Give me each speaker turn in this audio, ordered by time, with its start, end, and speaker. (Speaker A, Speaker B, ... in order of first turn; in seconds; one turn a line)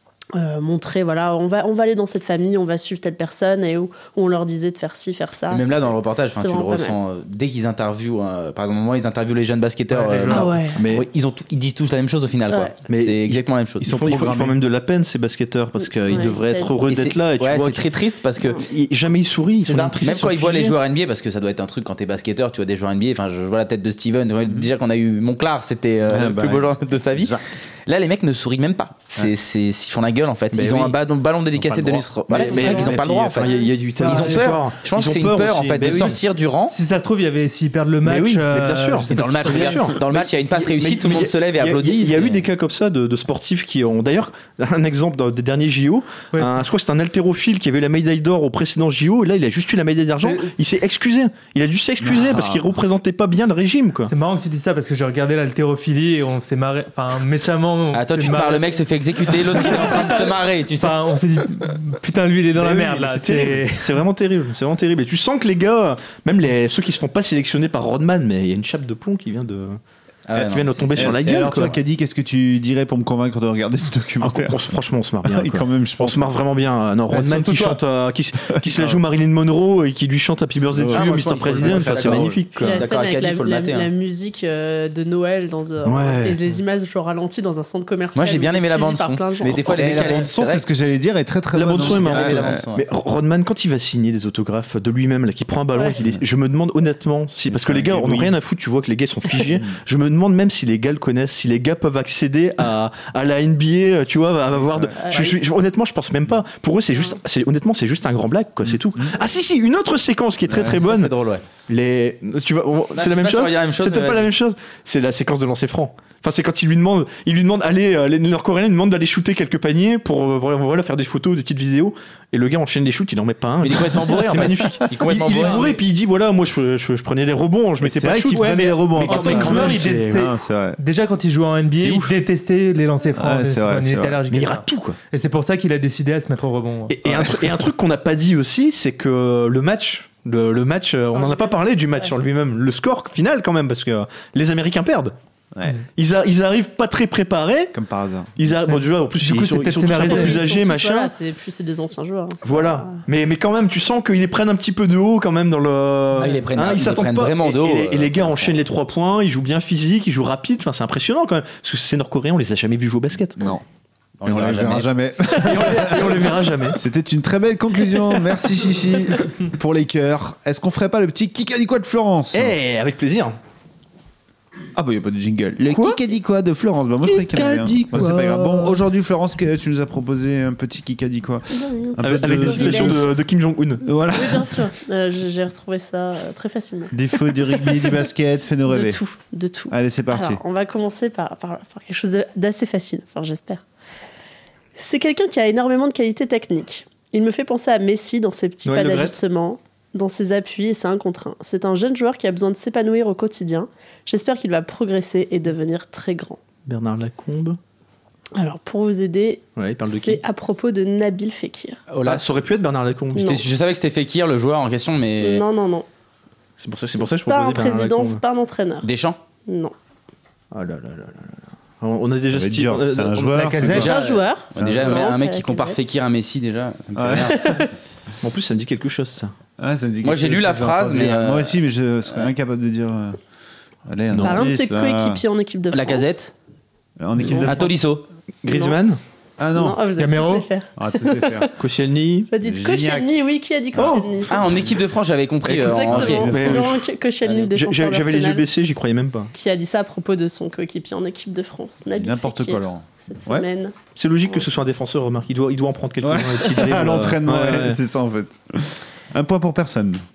Speaker A: 0.4-7.0
Speaker B: 5.5-13.9
Speaker C: 9.9-10.6
Speaker A: 10.3-10.8
Speaker D: 10.8-11.1
Speaker A: 12.5-12.8
Speaker D: 12.9-17.9
Speaker E: 13.8-14.6
Speaker A: 15.8-16.7
Speaker B: 16.9-18.6
Speaker D: 18.6-20.8
Speaker B: 19.7-36.8
Speaker E: 26.1-27.4
Speaker D: 30.5-31.0
Speaker D: 31.5-36.2
Speaker A: 32.4-33.8
Speaker C: 34.0-34.6
Speaker C: 36.6-39.9
Speaker D: 38.0-54.1
Speaker B: 39.1-42.4
Speaker C: 46.3-46.6
Speaker C: 50.2-50.6
Speaker E: 52.0-52.7
Speaker C: 54.1-64.0
Speaker B: 57.9-61.0
Speaker D: 62.5-69.8
Speaker B: 70.3-71.7
Speaker D: 70.3-71.8
Speaker E: 71.0-74.6
Speaker D: 74.2-82.8
Speaker E: 75.2-76.4
Speaker C: 77.1-77.8
Speaker E: 78.6-79.0
Speaker E: 80.6-82.5
Speaker B: 80.9-83.9
Speaker A: 82.6-90.1
Speaker D: 85.8-86.4
Speaker B: 88.2-90.7
Speaker E: 89.7-92.6
Speaker D: 91.5-111.1
Speaker B: 91.8-92.8
Speaker E: 97.5-98.4
Speaker E: 104.5-104.9
Speaker A: 105.0-105.4
Speaker E: 108.7-109.1
Speaker E: 110.5-110.8
Speaker B: 110.7-111.4
Speaker D: 111.7-130.2
Speaker B: 113.0-114.3
Speaker B: 123.6-125.8
Speaker E: 127.8-130.8
Speaker C: 128.3-137.0
Speaker D: 131.8-132.1
Speaker E: 133.2-134.2
Speaker D: 134.3-135.0
Speaker D: 136.9-145.1
Speaker E: 137.1-137.4
Speaker A: 141.1-142.1
Speaker D: 146.0-147.7
Speaker E: 147.7-148.3
Speaker D: 148.4-151.1
Speaker C: 148.7-150.4
Speaker A: 150.0-153.0
Speaker D: 152.4-163.5
Speaker B: 156.2-158.6
Speaker B: 164.2-164.9
Speaker E: 164.3-172.6
Speaker D: 165.4-166.8
Speaker D: 172.3-173.4
Speaker E: 174.8-183.1
Speaker D: 175.7-176.0
Speaker D: 177.1-178.4
Speaker C: 177.9-178.7
Speaker A: 181.5-183.1
Speaker D: 182.0-183.8
Speaker E: 183.8-184.6
Speaker A: 184.1-186.9
Speaker E: 186.9-189.0
Speaker A: 187.5-188.0
Speaker A: 188.7-193.6
Speaker E: 189.7-190.4
Speaker A: 194.8-206.4
Speaker D: 198.7-199.2
Speaker D: 206.7-207.6
Speaker A: 208.4-211.8
Speaker D: 209.6-210.2
Speaker B: 211.9-212.4
Speaker D: 212.1-213.3
Speaker A: 213.2-213.4
Speaker B: 213.2-215.4
Speaker A: 215.2-215.9
Speaker D: 216.6-218.2
Speaker A: 216.9-218.9
Speaker B: 218.8-219.2
Speaker A: 219.5-219.7
Speaker D: 220.5-223.7
Speaker E: 222.3-223.9
Speaker C: 223.4-224.0
Speaker B: 223.7-227.4
Speaker A: 223.8-225.8
Speaker E: 224.6-225.1
Speaker E: 227.0-227.5
Speaker A: 227.3-227.7
Speaker D: 228.2-229.3
Speaker E: 229.6-233.2
Speaker B: 230.0-231.6
Speaker E: 233.9-235.2
Speaker D: 234.1-234.5
Speaker A: 234.2-236.2
Speaker B: 235.7-236.3
Speaker E: 237.0-237.8
Speaker B: 237.4-238.1
Speaker D: 238.4-239.0
Speaker A: 238.5-238.8
Speaker E: 239.4-239.8
Speaker A: 239.5-241.5
Speaker C: 240.0-240.5
Speaker E: 240.8-241.5
Speaker D: 241.6-242.3
Speaker A: 242.3-244.4
Speaker E: 242.4-243.1
Speaker E: 243.7-244.7
Speaker D: 243.8-244.3
Speaker B: 244.3-246.3
Speaker D: 245.5-249.3
Speaker A: 245.6-248.4
Speaker E: 245.9-246.8
Speaker A: 249.3-253.7
Speaker E: 251.9-253.4
Speaker D: 254.0-257.8
Speaker E: 256.0-260.0